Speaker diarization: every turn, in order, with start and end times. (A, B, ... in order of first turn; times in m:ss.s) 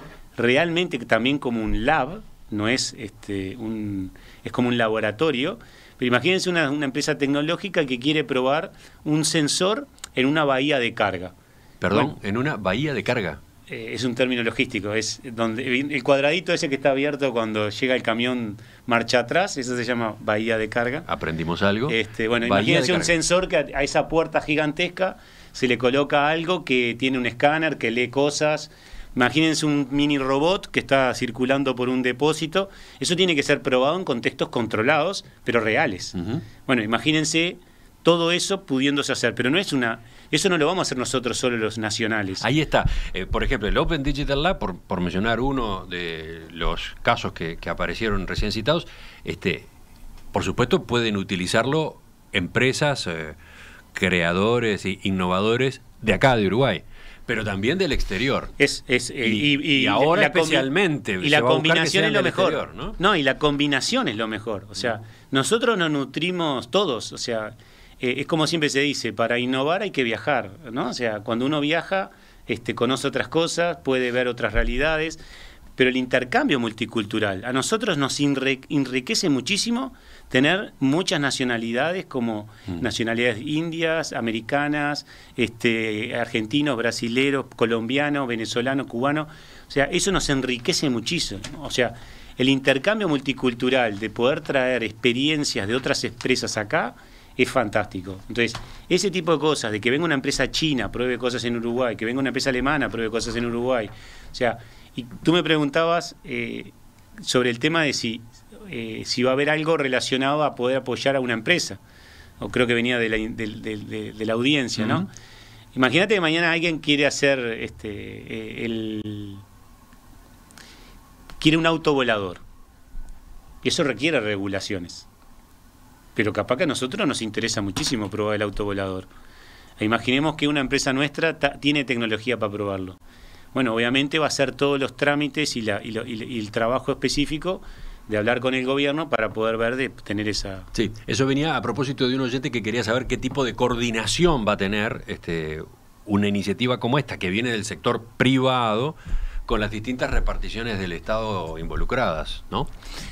0:00.4-0:11.3 A
0:11.8-0:13.4 B
0:13.7-0:21.0 A
0:21.1-0:23.1 B
0:21.9-0:42.4 A
0:36.1-0:36.4 B
0:42.4-0:49.7 B
0:50.3-0:53.4 B
0:53.9-0:58.5 B
0:58.6-1:00.7 A
0:59.2-1:03.0 B
1:01.2-1:15.2 A
1:15.8-1:51.8 A
1:52.4-1:55.1 A
1:55.7-1:59.4 A
2:01.4-2:02.4 A
2:03.6-2:05.1 A
2:06.1-2:09.1 A
2:09.8-2:13.0 A
2:13.5-2:20.7 A
2:20.7-2:32.7 B